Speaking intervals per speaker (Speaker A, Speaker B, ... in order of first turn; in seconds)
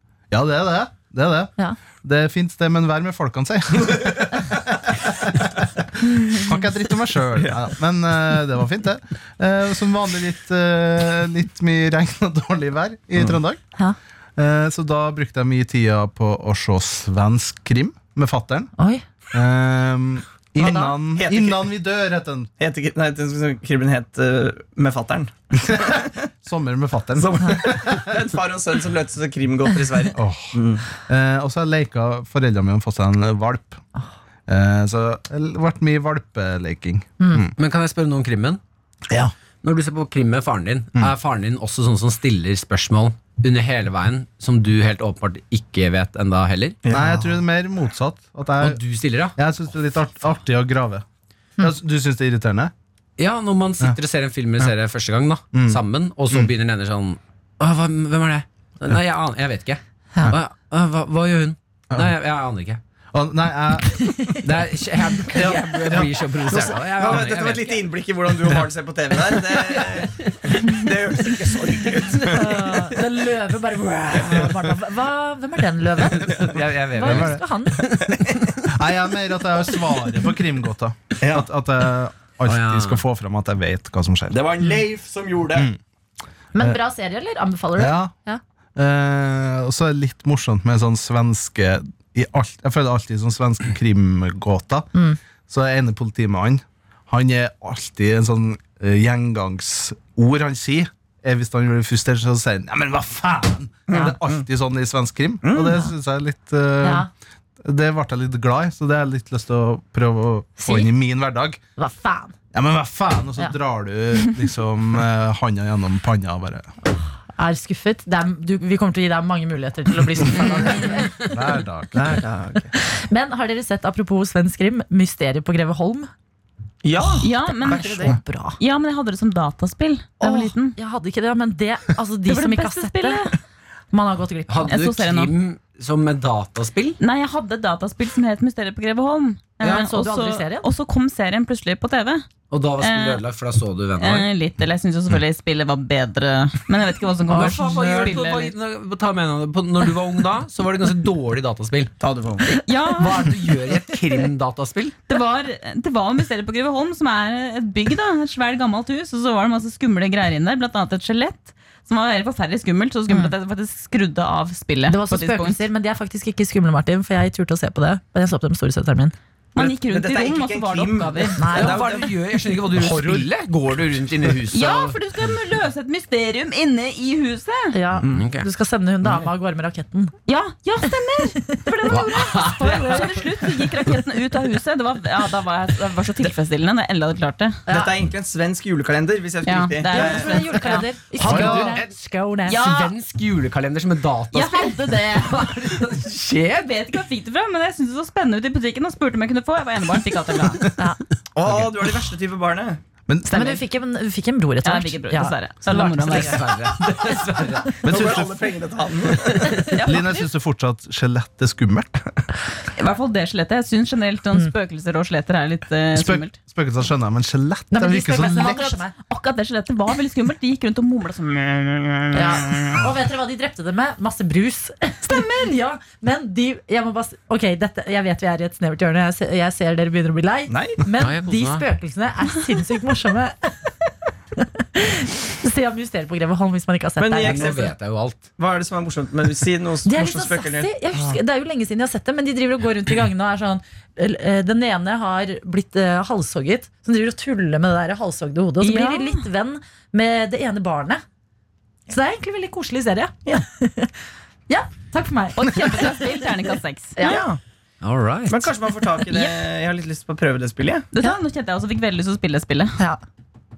Speaker A: 0.3-13.6, 14.4-18.7, 19.3-22.5, 25.6-28.2, 30.1-33.8, 34.5-37.5, 46.9-48.8, 49.4-51.0, 51.6-52.7, 55.5-56.5, 63.1-64.4, 65.4-66.1, 77.0-77.4, 78.7-84.4, 87.8-88.1, 88.8-94.9, 95.5-107.1, 107.6-111.6, 112.5-116.7, 120.4-122.2, 172.8-173.3, 191.2-191.8, 203.1-203.5, 207.8-208.5, 209.8-212.1, 215.9-218.8
Speaker B: 18.8-19.0, 72.2-77.8, 86.5-88.4, 106.8-107.1, 110.6-110.9, 111.8-112.3, 117.4-121.3, 122.8-126.1, 127.4-128.6, 130.2-133.3, 133.9-134.8, 139.6-140.7, 164.9-169.1, 171.4-171.8, 177.7-180.2, 180.8-183.2, 187.7-187.9, 189.9-192.9, 203.3-206.4, 217.7-218.9, 222.1-233.7, 234.4-237.6, 239.8-251.0, 251.9-253.9, 254.5-257.2
Speaker C: 20.6-21.6, 22.6-26.3, 27.2-30.8, 46.8-47.3, 65.4-73.1, 78.0-78.6, 81.2-81.5, 84.3-85.7, 103.9-104.5, 105.4-105.8, 122.0-122.7, 126.8-128.2, 152.0-152.5, 169.6-172.1, 187.7-190.6, 201.4-202.8, 207.8-209.7, 230.5-230.8, 237.0-237.7, 238.4-241.2, 257.0-257.4, 258.3-260.9
Speaker D: 37.5-38.6, 39.6-46.8, 48.6-49.4, 53.2-62.8, 64.4-67.9, 76.2-77.4, 82.5-83.0, 134.5-137.0, 142.5-144.3, 147.3-151.9, 153.0-155.0, 171.5-175.0, 178.1-178.5, 181.9-183.2, 191.2-191.9, 192.5-196.8, 206.0-207.8, 231.0-231.7, 237.2-238.3, 257.8-258.5
Speaker E: 127.2-128.1, 128.6-130.8, 132.3-133.4, 134.7-135.3, 137.0-142.3, 142.8-143.2, 144.0-148.5, 152.5-153.3, 155.1-165.6, 169.6-171.7, 174.5-177.8, 180.3-187.6, 189.4-190.9, 192.5-192.9, 194.3-195.5, 196.6-200.7, 204.6-206.5, 209.6-210.2, 212.8-216.3, 218.9-222.8, 248.6-249.2, 255.4-257.2, 260.9-262.8